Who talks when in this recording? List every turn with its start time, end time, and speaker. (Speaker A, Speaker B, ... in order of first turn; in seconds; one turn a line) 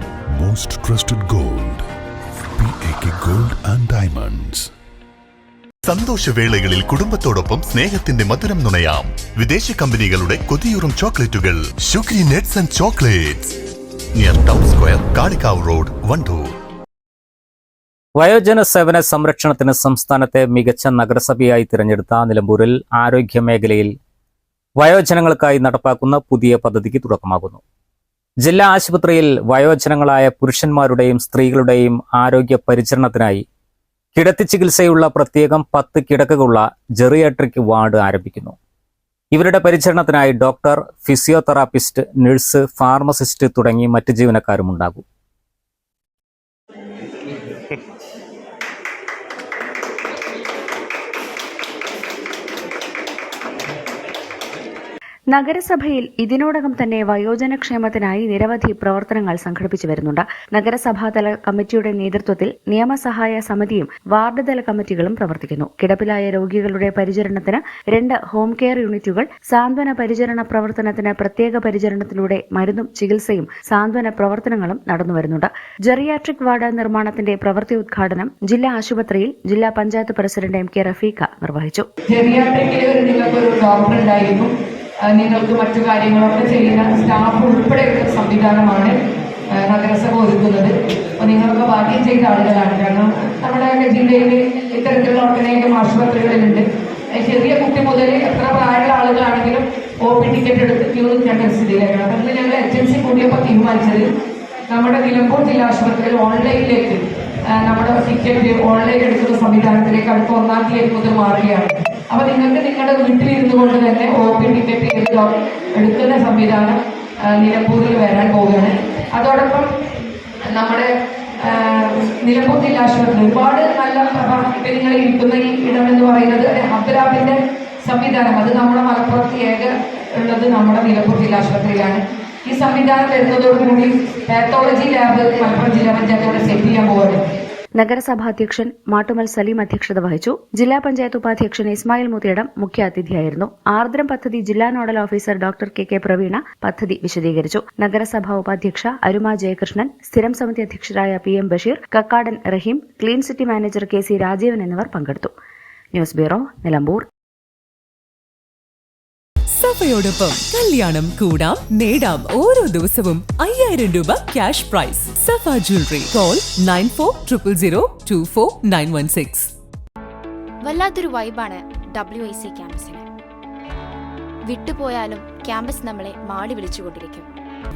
Speaker A: 0.3-1.9
Speaker A: 2.6-4.7
Speaker B: 5.8-13.5
Speaker B: 14.1-16.5
Speaker C: 18.1-23.9
Speaker C: 24.8-27.6
Speaker C: 28.4-33.4
Speaker C: 34.1-38.5
Speaker C: 39.3-45.0
Speaker D: 55.3-81.9
Speaker E: 82.1-84.5
Speaker E: 85.1-88.9
Speaker E: 89.5-104.0
Speaker E: 104.7-119.7
Speaker E: 120.4-120.9
Speaker E: 121.4-137.2
Speaker D: 137.8-155.3
Speaker D: 155.9-157.0
Speaker F: 159.6-169.5
Speaker G: 170.6-173.0
Speaker G: 174.4-177.3